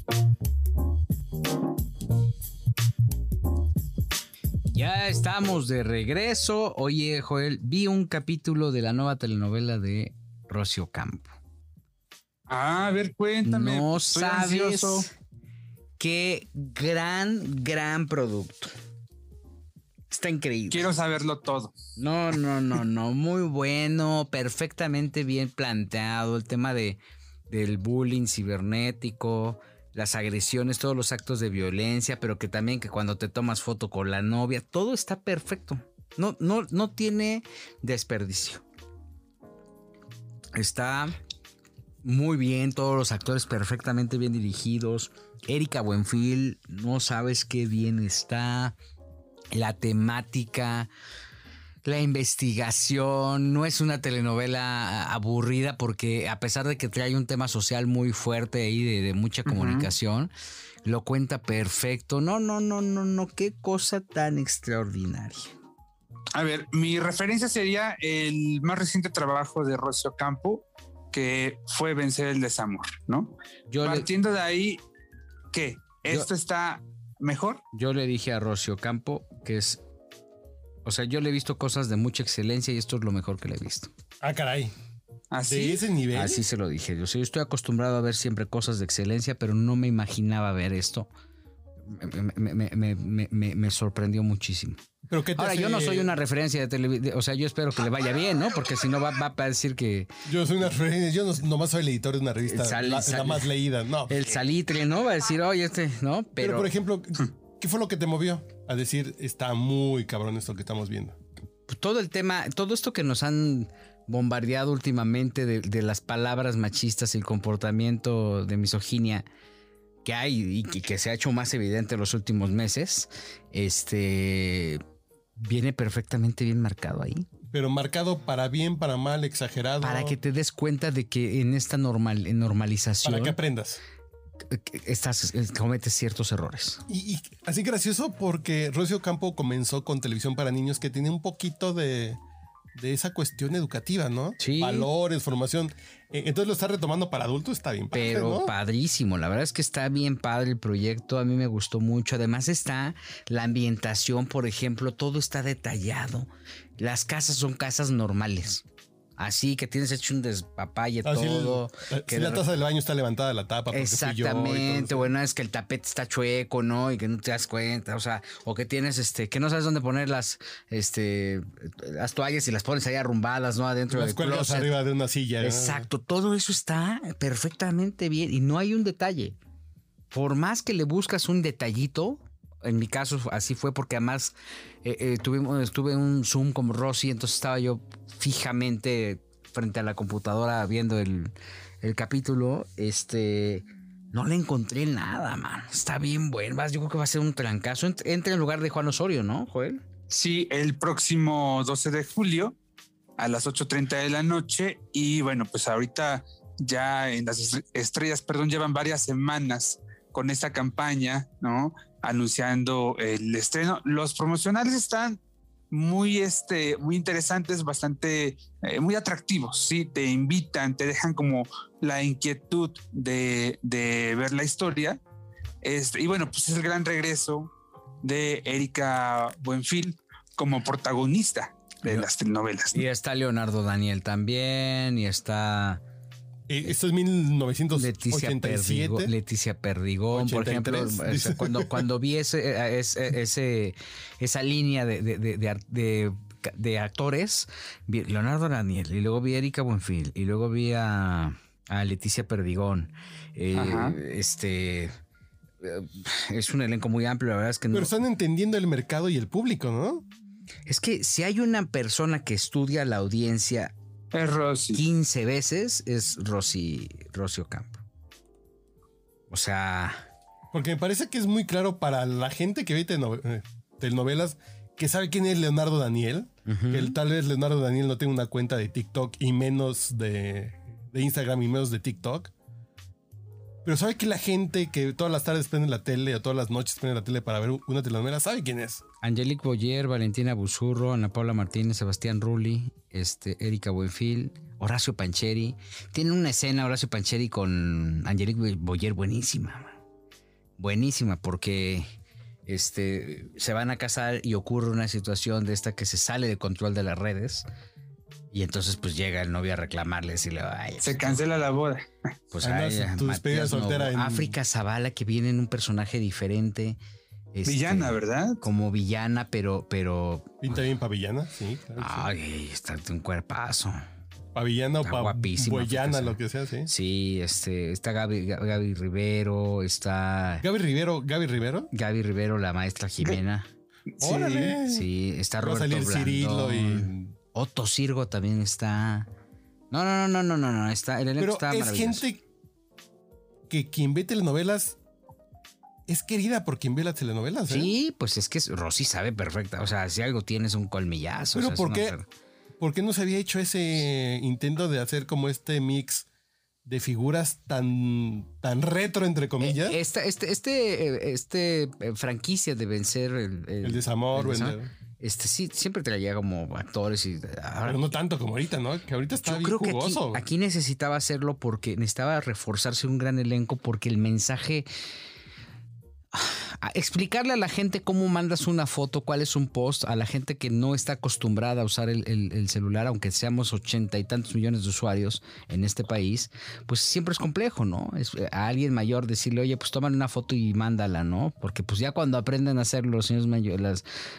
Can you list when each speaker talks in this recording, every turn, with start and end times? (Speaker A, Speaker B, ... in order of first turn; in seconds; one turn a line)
Speaker A: 4.7-11.3
Speaker B: 12.5-15.1
Speaker A: 13.4-15.1
Speaker A: 16.0-18.7
Speaker A: 20.1-20.9
Speaker B: 20.7-21.7
Speaker A: 22.0-38.6
Speaker A: 40.5-41.1
Speaker A: 42.0-48.7
Speaker A: 49.5-50.9
Speaker A: 51.8-60.3
Speaker B: 59.5-59.9
Speaker A: 60.8-65.5
Speaker B: 66.3-74.8
Speaker A: 73.7-74.1
Speaker B: 75.5-77.6
Speaker A: 77.7-79.8
Speaker A: 80.8-83.9
Speaker C: 84.2-84.7
Speaker B: 85.3-85.8
Speaker C: 85.4-86.4
Speaker A: 86.1-91.1
Speaker A: 91.9-94.8
Speaker C: 95.1-96.2
Speaker A: 95.3-100.1
Speaker C: 100.2-104.1
Speaker A: 102.5-103.5
Speaker A: 104.1-106.7
Speaker C: 106.4-111.2
Speaker A: 111.7-119.2
Speaker A: 120.0-124.8
Speaker A: 125.4-127.3
Speaker C: 127.5-130.2
Speaker A: 129.8-133.4
Speaker C: 133.0-133.8
Speaker A: 134.4-136.8
Speaker C: 136.9-142.2
Speaker C: 142.8-148.5
Speaker A: 144.4-144.9
Speaker A: 147.9-158.6
Speaker A: 159.2-162.4
Speaker C: 161.0-165.1
Speaker A: 163.7-174.8
Speaker C: 173.9-175.9
Speaker A: 175.4-179.4
Speaker A: 180.1-199.8
Speaker B: 200.1-202.5
Speaker B: 203.2-215.2
Speaker B: 215.7-225.0
Speaker B: 225.6-232.8
Speaker A: 232.7-235.8
Speaker C: 236.5-239.1
Speaker A: 237.7-254.9
Speaker C: 240.1-241.8
Speaker B: 253.5-254.0
Speaker A: 255.6-257.9
Speaker C: 257.7-260.0
Speaker A: 260.7-263.7
Speaker B: 264.1-264.8
Speaker A: 264.7-267.8
Speaker A: 269.3-270.0
Speaker C: 270.5-282.3
Speaker A: 276.4-276.9
Speaker C: 283.6-288.8
Speaker A: 289.0-299.8
Speaker A: 300.6-301.9
Speaker A: 302.4-307.4
Speaker A: 308.3-311.2
Speaker B: 310.8-311.9
Speaker A: 312.3-316.8
Speaker C: 312.4-314.4
Speaker A: 317.3-320.6
Speaker B: 317.4-318.4
Speaker C: 320.4-322.1
Speaker A: 321.8-323.8
Speaker C: 324.3-326.7
Speaker A: 324.8-330.4
Speaker C: 330.4-331.7
Speaker A: 331.7-333.5
Speaker B: 334.0-334.5
Speaker C: 334.0-334.9
Speaker A: 334.6-339.1
Speaker C: 335.4-337.1
Speaker A: 339.7-342.1
Speaker C: 341.2-342.2
Speaker C: 343.5-344.8
Speaker C: 345.9-347.7
Speaker A: 347.5-352.1
Speaker C: 351.3-352.0
Speaker C: 352.6-356.1
Speaker C: 356.6-359.8
Speaker A: 359.4-367.8
Speaker C: 363.6-364.7
Speaker C: 367.6-370.2
Speaker A: 369.2-374.7
Speaker A: 376.1-393.8